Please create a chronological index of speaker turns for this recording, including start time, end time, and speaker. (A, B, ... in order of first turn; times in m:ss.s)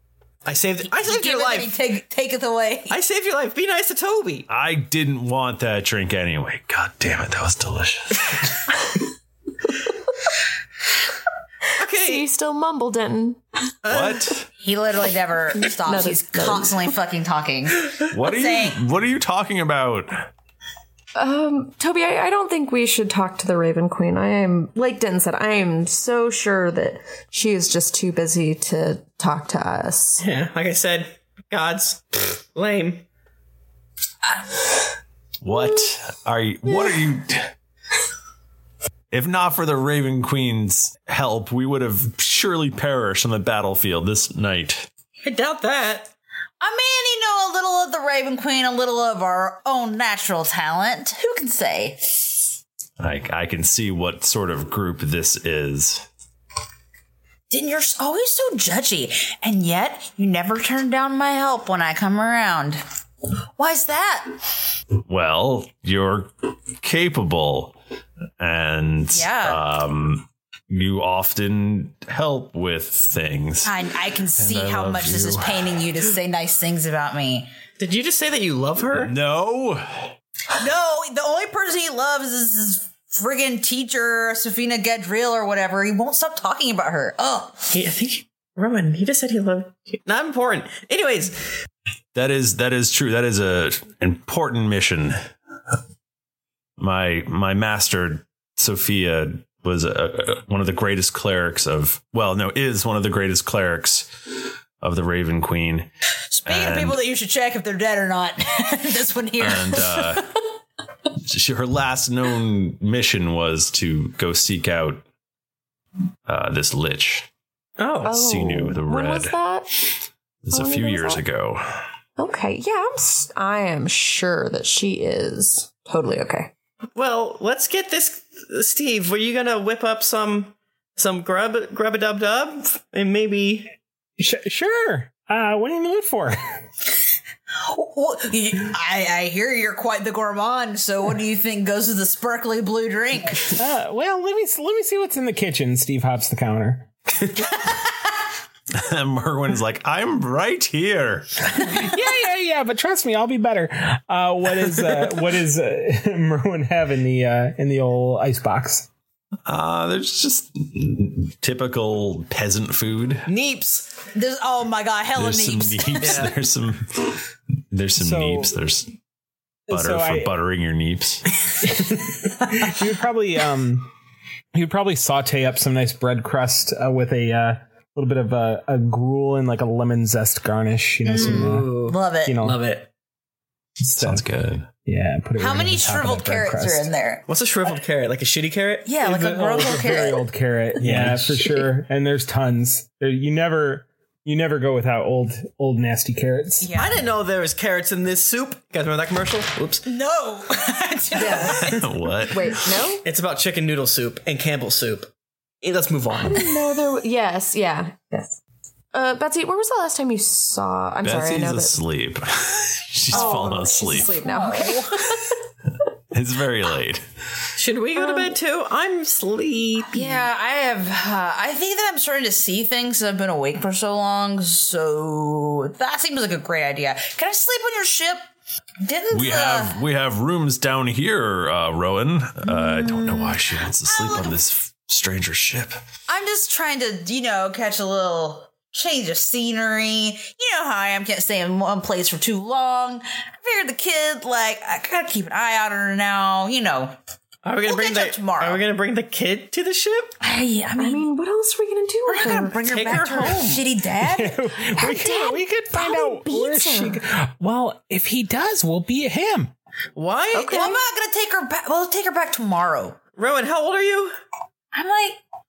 0:00.5-0:01.8 A
0:00.8-0:03.0 B
0:02.9-0:04.5 A
0:04.5-0:08.5 C
0:11.8-0:12.2 A
0:12.0-0:13.4 D
0:13.9-0:14.2 A
0:13.9-0:14.4 C
0:14.5-0:18.8 B
0:15.8-0:16.8 D
0:18.1-0:20.3 C
0:21.2-0:30.2 D
0:30.2-0:33.0 A
0:35.4-0:37.5 C
0:39.1-0:44.9 C
0:45.2-0:46.1 A
0:46.6-0:52.4 B
0:53.0-0:56.1 C
0:57.5-1:02.8 B
1:03.6-1:04.4 B
1:05.0-1:07.8 C
1:08.4-1:15.9 C
1:09.1-1:09.6 B
1:13.6-1:17.5 B
1:17.8-1:19.1 A
1:18.9-1:20.1 C
1:20.5-1:27.7 B
1:27.7-1:31.5 A
1:32.1-1:35.2 C
1:36.8-1:44.1 C
1:44.8-1:45.9 C
1:46.3-1:50.2 B
1:46.5-1:47.0 C
1:49.4-1:50.3 C
1:51.2-1:55.0 C
1:56.3-1:57.3 C
1:57.8-1:58.2 A
1:58.0-1:59.4 C
1:58.0-1:59.7 D
2:00.4-2:01.8 C
2:00.5-2:01.2 D
2:02.2-2:06.5 D
2:07.0-2:13.7 A
2:14.2-2:16.4 E
2:17.7-2:23.5 B
2:23.6-2:26.9 E
2:28.7-2:31.3 C
2:31.6-2:38.9 E
2:39.5-2:43.3 C
2:43.3-2:43.9 A
2:44.1-2:46.3 B
2:45.2-2:47.2 C
2:46.0-2:46.3 A
2:47.7-2:48.9 C
2:48.0-2:48.5 E
2:49.7-2:50.3 E
2:49.7-2:51.2 C
2:51.6-2:53.9 E
2:54.5-3:02.6 E
3:01.1-3:02.4 B
3:01.1-3:02.9 A
3:03.8-3:04.3 E
3:03.9-3:04.7 C
3:04.8-3:06.9 E
3:05.4-3:07.2 B
3:07.3-3:10.0 A
3:08.9-3:10.2 B
3:09.0-3:16.7 E
3:10.8-3:11.4 A
3:16.6-3:17.0 B
3:16.7-3:19.9 A
3:19.9-3:21.7 B
3:21.2-3:21.7 D
3:21.6-3:22.6 C
3:22.3-3:23.0 D
3:23.0-3:25.1 A
3:25.6-3:26.5 A
3:26.3-3:28.4 D
3:28.9-3:31.8 D
3:31.0-3:34.1 C
3:33.1-3:35.2 D
3:33.1-3:34.9 B
3:36.1-3:37.0 C
3:37.6-3:40.2 A
3:38.0-3:38.3 D
3:39.9-3:48.2 B
3:48.8-3:49.8 B
3:49.1-3:55.8 C
3:52.4-3:54.4 B
3:56.1-4:06.9 B
4:07.4-4:10.1 A
4:07.6-4:08.6 B
4:10.2-4:11.0 B
4:10.8-4:12.6 D
4:12.1-4:14.4 B
4:12.6-4:13.6 A
4:14.0-4:19.5 E
4:14.7-4:17.0 D
4:20.0-4:20.7 A
4:20.4-4:23.0 B
4:20.4-4:20.7 D
4:23.2-4:24.1 A
4:24.7-4:25.2 B